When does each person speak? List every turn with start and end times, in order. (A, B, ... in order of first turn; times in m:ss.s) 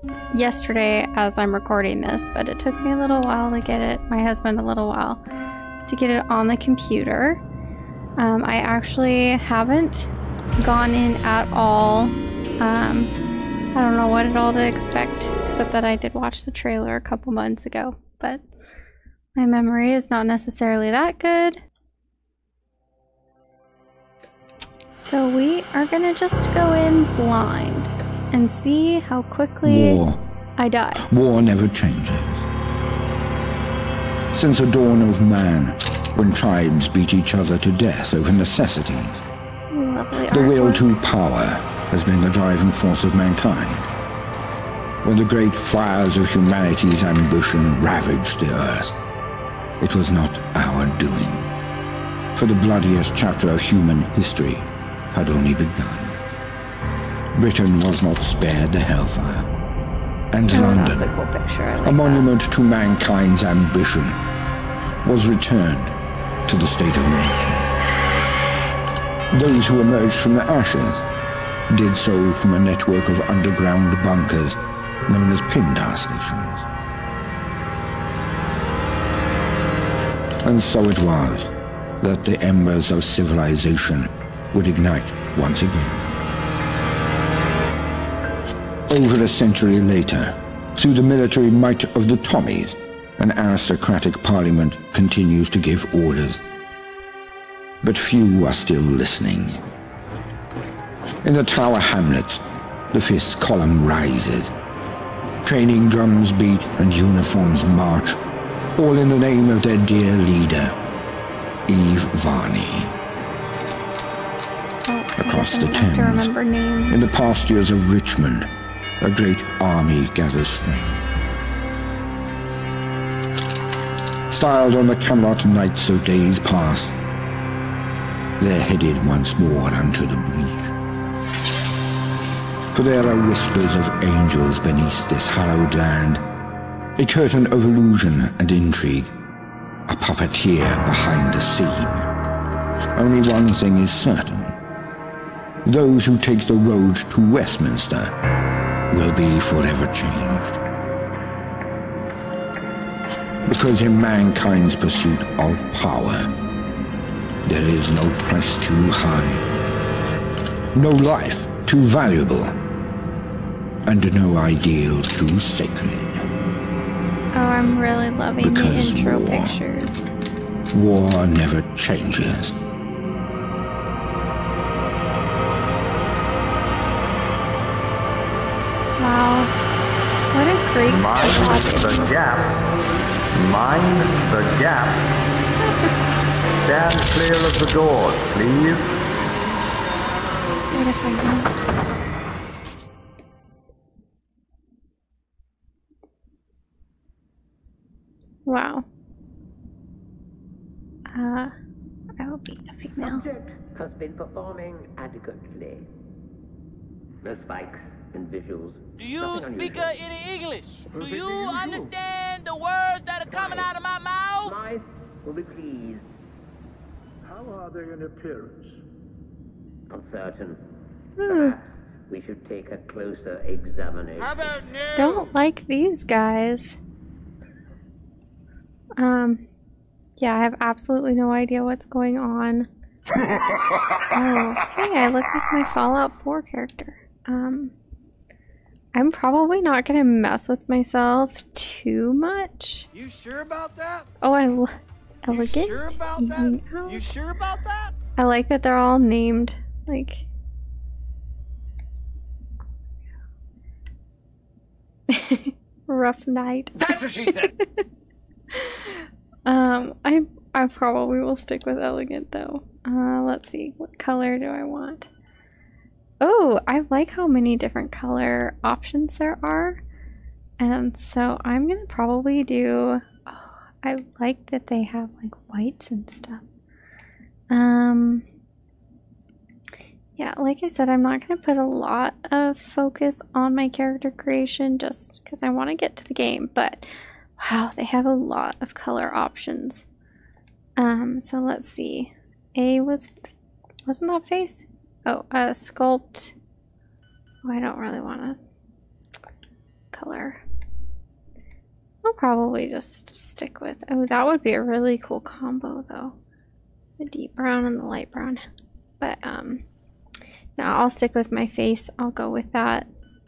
0:00.3-0:05.2 A
0:05.9-0:07.4 A
0:08.2-0:13.1 A
0:13.7-0:18.4 A
0:19.4-0:21.6 A
0:25.0-0:30.0 A
0:29.6-0:30.2 B
0:30.6-0:31.0 A
0:31.0-0:32.5 B
0:34.3-0:39.2 B
0:39.7-0:41.0 A
0:40.3-0:43.9 B
0:45.0-0:49.0 B
0:49.8-0:51.5 B
0:52.3-0:56.2 B
0:57.4-0:59.5 B
1:00.3-1:01.1 B
1:00.5-1:02.3 A
1:01.8-1:04.2 B
1:05.0-1:07.8 B
1:09.3-1:11.0 B
1:11.7-1:16.7 B
1:20.4-1:26.0 B
1:28.9-1:36.4 B
1:37.8-1:39.6 B
1:41.2-1:44.5 B
1:45.4-1:48.2 B
1:48.8-1:50.8 B
1:51.7-1:53.0 B
1:54.9-1:57.1 A
1:55.2-1:56.3 B
1:56.9-1:58.5 B
1:59.0-2:01.0 B
2:04.3-2:07.0 B
2:08.4-2:10.7 B
2:12.7-2:16.2 B
2:17.0-2:19.1 B
2:19.9-2:22.1 B
2:23.0-2:24.5 B
2:25.6-2:28.1 B
2:28.9-2:30.6 B
2:33.5-2:36.3 B
2:37.4-2:39.4 B
2:40.8-2:42.6 B
2:43.8-2:46.2 B
2:47.3-2:50.1 A
2:48.4-2:49.6 B
2:50.7-2:52.6 B
2:59.0-2:59.5 A
3:00.3-3:02.0 A
3:00.9-3:02.6 C
3:03.3-3:05.0 C
3:06.6-3:08.9 C
3:10.7-3:11.5 A
3:18.5-3:18.9 A
3:21.1-3:21.5 A
3:22.2-3:23.2 A
3:23.0-3:25.9 D
3:27.2-3:30.0 D
3:29.0-3:34.6 E
3:31.0-3:31.9 F
3:31.3-3:31.8 D
3:33.3-3:33.7 D
3:34.4-3:36.1 D
3:37.2-3:38.7 F
3:39.9-3:40.6 D
3:41.2-3:41.6 A
3:41.3-3:44.4 D
3:44.2-3:45.3 E
3:45.0-3:46.8 A
3:49.0-3:49.4 A
3:50.2-3:52.7 A
3:54.1-3:57.7 A
3:59.0-4:02.9 A
4:02.9-4:04.1 E
4:04.2-4:07.1 A
4:05.3-4:08.0 E
4:08.2-4:10.3 A
4:15.1-4:17.7 A
4:16.8-4:17.5 E
4:18.5-4:18.9 A
4:19.5-4:25.1 A
4:26.2-4:29.8 A
4:30.6-4:36.4 A
4:37.5-4:38.2 A
4:40.2-4:49.8 A
4:50.8-4:53.1 A
4:53.9-4:56.4 A
4:57.4-4:58.4 A
4:59.9-5:00.4 A
5:02.0-5:06.2 A
5:07.0-5:08.4 A
5:09.0-5:09.6 A
5:10.6-5:12.9 A